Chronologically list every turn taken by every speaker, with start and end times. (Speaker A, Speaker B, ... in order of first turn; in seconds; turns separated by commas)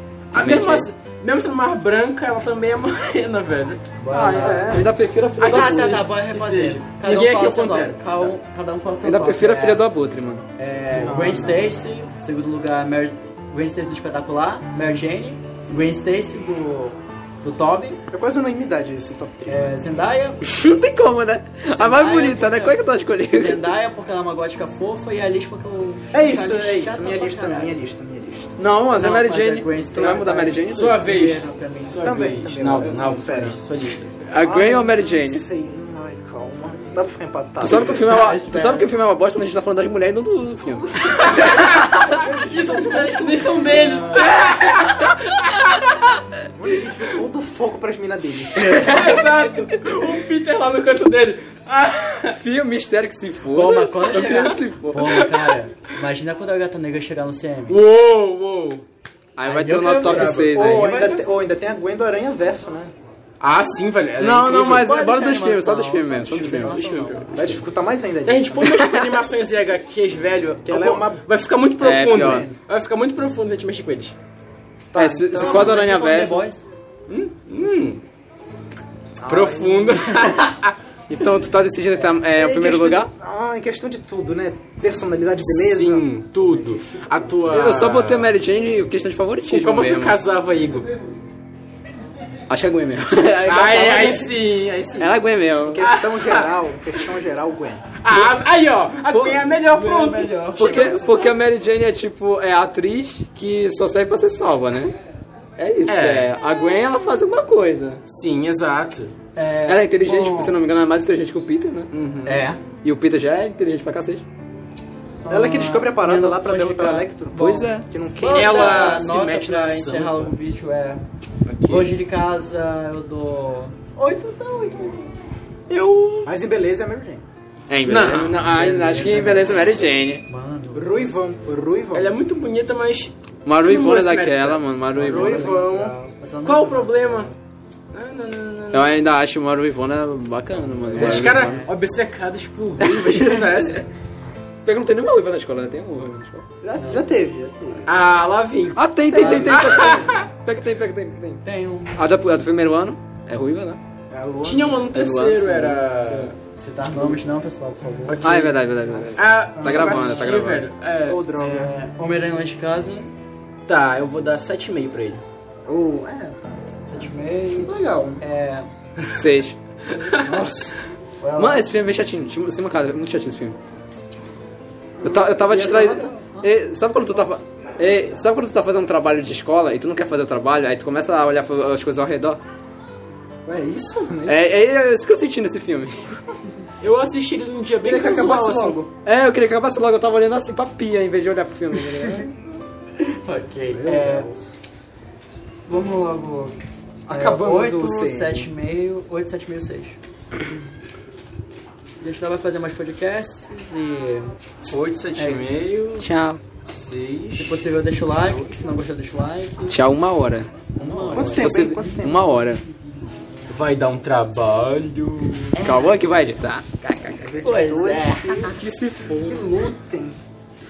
Speaker A: 0.3-3.9, Speaker B: 0.3-0.9, Speaker C: 4.0-4.9, Speaker B: 4.1-6.0, Speaker A: 5.4-8.3, Speaker C: 5.4-9.8, Speaker B: 9.0-10.4, Speaker C: 10.6-18.0, Speaker D: 10.9-11.8, Speaker D: 18.1-20.1, Speaker C: 19.5-20.4, Speaker B: 20.4-23.7, Speaker C: 21.7-27.7, Speaker D: 26.1-28.6, Speaker B: 28.6-31.0, Speaker C: 28.9-32.2, Speaker A: 30.7-34.1, Speaker D: 32.0-33.6, Speaker B: 34.3-35.4, Speaker D: 34.4-38.1, Speaker B: 37.6-41.9, Speaker C: 37.9-38.9, Speaker A: 41.1-46.1, Speaker D: 42.0-44.5, Speaker D: 46.5-49.0, Speaker C: 48.6-49.3, Speaker A: 48.6-52.4, Speaker B: 52.4-55.3, Speaker C: 53.5-57.8, Speaker A: 54.1-54.5, Speaker A: 57.7-58.8, Speaker B: 59.4-60.9, Speaker C: 59.5-61.2, Speaker A: 60.0-60.4, Speaker D: 60.5-62.9, Speaker A: 63.4-64.9, Speaker B: 64.2-67.3, Speaker C: 64.7-67.6, Speaker D: 67.3-68.7, Speaker A: 68.2-74.2, Speaker B: 68.6-69.2, Speaker D: 70.7-71.2, Speaker B: 71.8-72.5, Speaker D: 71.9-72.6, Speaker D: 74.9-75.8, Speaker B: 75.0-76.4, Speaker C: 75.3-76.6, Speaker A: 77.1-78.0, Speaker D: 79.2-80.1, Speaker A: 79.3-80.8, Speaker B: 81.1-83.1, Speaker D: 82.3-87.3, Speaker A: 85.4-88.3, Speaker B: 87.5-90.2, Speaker A: 89.5-90.9, Speaker B: 92.5-94.3, Speaker A: 93.4-95.1, Speaker B: 95.0-95.8, Speaker D: 95.7-97.8, Speaker A: 95.8-96.5, Speaker A: 98.0-101.2, Speaker B: 99.1-99.5, Speaker C: 99.6-101.1, Speaker B: 100.6-104.9, Speaker B: 105.6-108.0, Speaker A: 105.9-106.3, Speaker A: 108.0-109.2, Speaker C: 109.4-110.5, Speaker B: 109.7-111.9, Speaker A: 111.9-112.5, Speaker C: 112.2-112.6, Speaker B: 112.8-114.2, Speaker C: 115.2-117.7, Speaker D: 115.3-119.0, Speaker B: 117.3-117.9, Speaker C: 118.2-121.0, Speaker A: 118.3-120.3, Speaker A: 121.5-121.9, Speaker C: 121.7-125.1, Speaker A: 125.7-126.3, Speaker D: 126.2-127.2, Speaker B: 127.7-130.2, Speaker A: 127.8-128.4, Speaker C: 128.2-131.1, Speaker D: 130.7-132.2, Speaker A: 131.9-134.6, Speaker B: 133.4-135.6, Speaker C: 134.9-137.4, Speaker D: 135.0-136.0, Speaker A: 136.4-137.3, Speaker A: 137.9-138.9, Speaker B: 138.7-141.6, Speaker C: 140.9-141.7, Speaker A: 141.0-143.8, Speaker B: 142.8-143.4, Speaker B: 144.7-146.5, Speaker D: 146.6-147.9, Speaker C: 146.8-147.1, Speaker A: 147.9-150.2, Speaker B: 148.8-153.8, Speaker D: 149.1-150.3, Speaker C: 151.4-152.0, Speaker D: 154.1-154.9, Speaker A: 154.4-156.3, Speaker B: 154.9-156.3, Speaker C: 156.6-158.5, Speaker A: 158.1-158.6, Speaker B: 158.2-160.7, Speaker D: 158.9-160.3, Speaker A: 159.2-161.2, Speaker D: 161.1-161.7, Speaker C: 161.4-163.1, Speaker A: 163.7-165.2, Speaker D: 165.7-168.2, Speaker C: 166.9-168.7, Speaker B: 169.1-169.6, Speaker A: 169.8-170.5, Speaker D: 170.1-170.7, Speaker C: 171.2-171.7, Speaker B: 171.4-173.6, Speaker D: 175.0-176.2, Speaker B: 175.0-182.4, Speaker D: 183.4-184.4, Speaker B: 184.3-186.2, Speaker A: 186.8-188.8, Speaker D: 187.8-188.9, Speaker B: 189.0-192.3, Speaker C: 193.0-194.3, Speaker D: 193.7-194.6, Speaker C: 195.7-196.6, Speaker D: 197.1-198.5, Speaker C: 197.1-200.0, Speaker C: 202.0-204.3, Speaker A: 204.7-206.1, Speaker C: 205.2-205.7, Speaker B: 206.0-206.4, Speaker A: 206.7-208.5, Speaker C: 207.4-209.8, Speaker B: 209.7-212.6, Speaker C: 210.8-211.7, Speaker D: 211.1-212.2, Speaker A: 213.5-215.6, Speaker C: 215.6-215.9, Speaker B: 215.6-217.2, Speaker A: 216.9-217.2, Speaker D: 217.2-218.6, Speaker C: 217.4-218.5, Speaker B: 218.3-219.4, Speaker D: 219.1-220.2